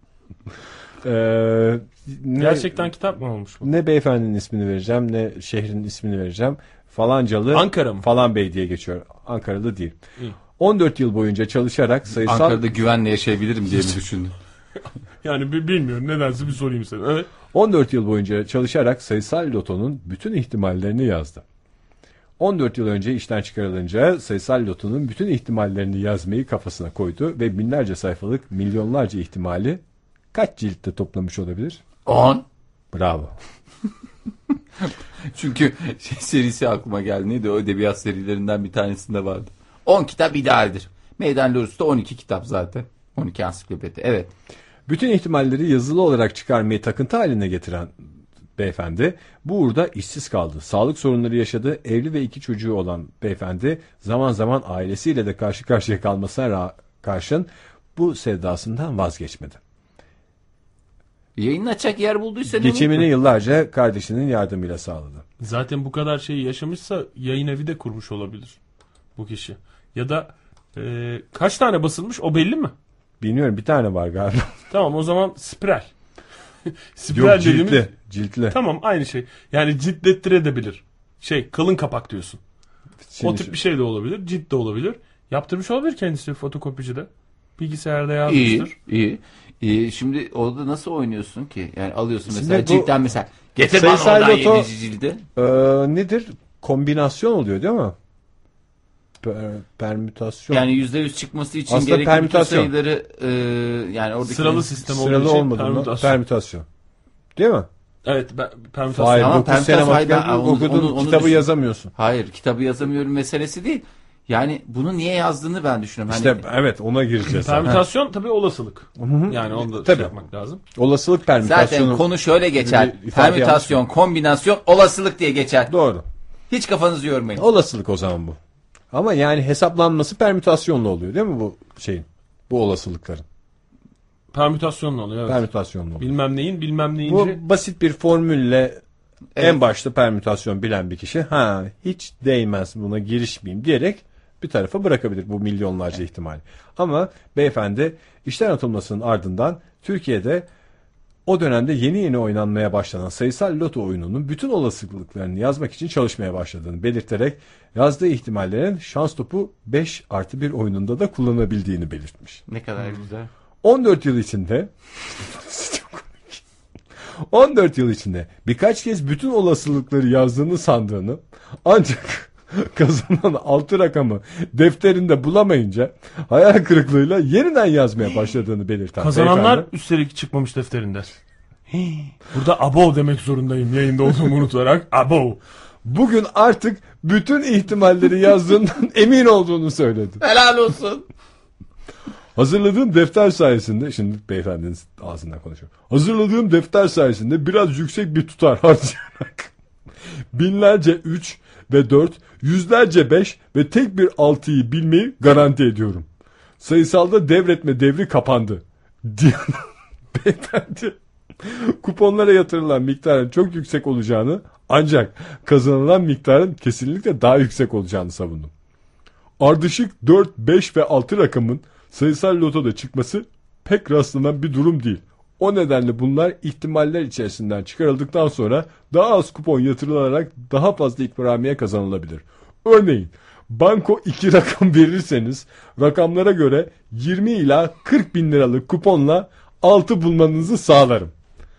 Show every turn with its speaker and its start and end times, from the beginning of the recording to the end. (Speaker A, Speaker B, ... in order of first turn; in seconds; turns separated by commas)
Speaker A: 1.0-2.9, Speaker B: 2.4-3.7, Speaker A: 3.6-10.0, Speaker B: 7.5-8.1, Speaker A: 10.6-12.6, Speaker C: 12.2-14.3, Speaker B: 15.2-17.3, Speaker A: 17.5-21.4, Speaker A: 22.4-29.8, Speaker A: 30.3-31.8, Speaker C: 32.0-32.4, Speaker A: 32.9-33.3, Speaker C: 34.8-44.3, Speaker A: 44.9-48.0, Speaker A: 48.6-59.6, Speaker C: 61.4-63.1, Speaker A: 62.5-65.2, Speaker B: 65.4-68.6, Speaker B: 69.2-72.7, Speaker A: 73.2-74.6, Speaker B: 74.7-75.9, Speaker B: 77.0-77.8, Speaker A: 77.1-78.5, Speaker B: 78.5-82.4, Speaker A: 83.0-83.6, Speaker B: 83.2-88.7, Speaker C: 88.3-95.2, Speaker A: 92.3-92.9, Speaker A: 93.7-94.7, Speaker A: 95.3-98.0, Speaker A: 99.2-100.6, Speaker C: 100.5-104.7, Speaker A: 101.7-102.7, Speaker B: 104.2-106.2, Speaker A: 104.9-106.7, Speaker A: 107.3-107.7, Speaker B: 108.0-109.4, Speaker A: 108.9-111.9, Speaker C: 109.0-116.4, Speaker A: 116.1-117.8, Speaker B: 117.3-120.6, Speaker A: 119.0-120.2, Speaker A: 120.7-123.8, Speaker C: 121.4-125.7, Speaker A: 125.7-126.0, Speaker C: 126.5-127.4, Speaker A: 127.3-128.4, Speaker A: 128.9-133.2, Speaker B: 134.3-135.4, Speaker A: 135.2-136.1, Speaker B: 136.0-137.4, Speaker A: 137.0-138.8, Speaker A: 139.4-150.5, Speaker A: 151.2-162.4, Speaker C: 162.5-163.3, Speaker A: 163.6-166.4, Speaker A: 167.3-179.7, Speaker B: 179.0-181.1, Speaker B: 181.7-185.4, Speaker A: 185.8-190.2, Speaker C: 190.2-191.0, Speaker A: 192.3-199.5, Speaker A: 200.3-206.1, Speaker A: 206.6-218.5, Speaker A: 219.4-241.1